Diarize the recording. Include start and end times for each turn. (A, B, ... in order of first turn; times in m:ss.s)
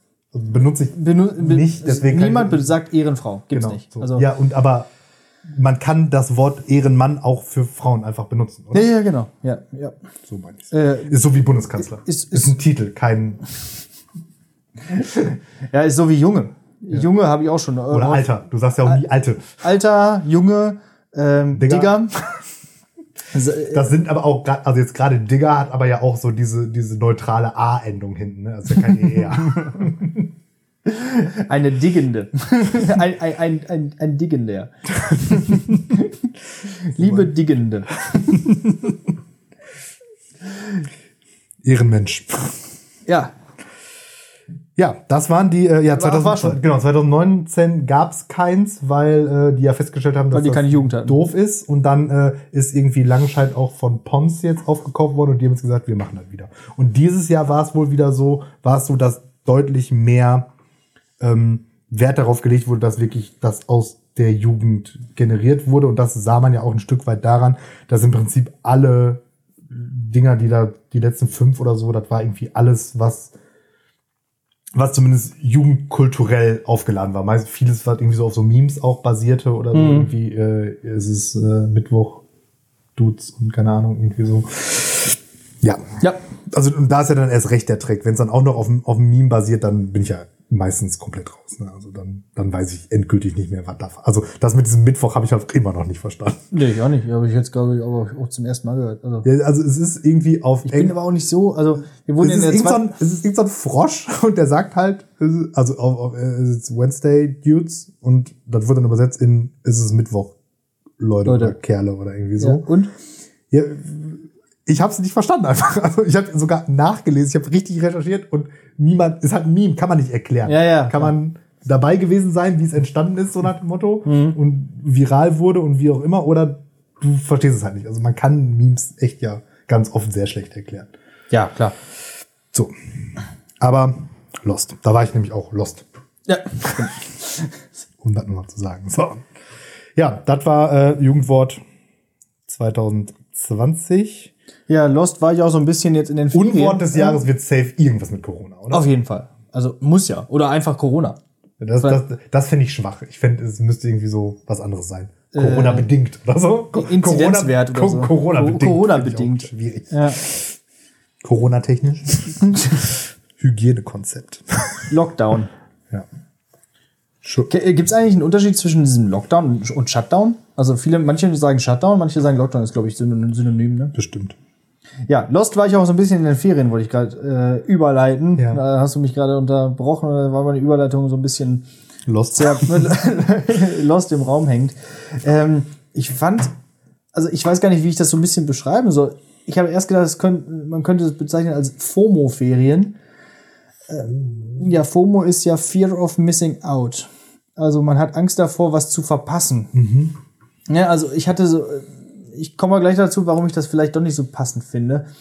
0:00.3-0:02.7 A
0:01.0-0:04.3 B
0:03.5-0:04.9 A
0:05.5-0:08.9 A
0:08.7-0:10.0 B
0:10.3-0:13.4 A
0:10.7-0:11.2 B
0:12.0-0:12.6 B
0:14.9-0:18.3 B
0:17.9-0:19.6 A
0:19.6-0:22.2 B
0:21.6-0:22.4 A
0:23.3-0:23.9 B
0:23.7-0:30.2 A
0:29.4-0:29.8 B
0:30.8-0:38.9 B
0:35.1-0:35.8 A
0:37.0-0:37.3 A
0:38.1-0:38.4 A
0:41.6-0:42.7 A
0:43.1-0:43.3 B
0:44.8-1:00.5 A
0:45.9-0:46.6 B
0:50.3-0:51.2 B
1:01.2-1:13.3 A
1:14.8-1:22.2 A
1:19.7-1:20.1 B
1:23.0-1:26.0 A
1:26.5-1:36.5 A
1:36.5-1:39.3 B
1:39.2-1:41.0 A
1:40.7-1:42.8 B
1:42.2-1:50.4 A
1:51.0-1:52.7 A
1:51.3-1:51.6 B
1:52.4-1:52.9 B
1:53.5-2:10.9 A
2:00.5-2:01.1 B
2:04.1-2:04.4 B
2:11.3-2:11.8 B
2:13.6-2:15.8 A
2:16.3-2:17.5 B
2:18.0-2:19.3 A
2:20.0-2:21.6 A
2:22.5-2:24.3 A
2:24.7-2:27.2 B
2:26.3-2:28.9 A
2:28.7-2:31.2 B
2:31.6-2:40.6 A
2:35.3-2:35.9 B
2:36.7-2:40.2 B
2:41.2-2:44.9 A
2:44.9-2:45.5 B
2:47.2-2:47.5 A
2:47.5-2:53.9 B
2:54.0-2:54.4 A
2:55.1-3:01.6 B
2:58.4-2:58.6 A
3:02.1-3:02.9 A
3:02.3-3:06.5 B
3:07.1-3:13.0 B
3:13.9-3:19.7 B
3:14.1-3:14.6 A
3:19.7-3:20.2 A
3:20.7-3:25.0 B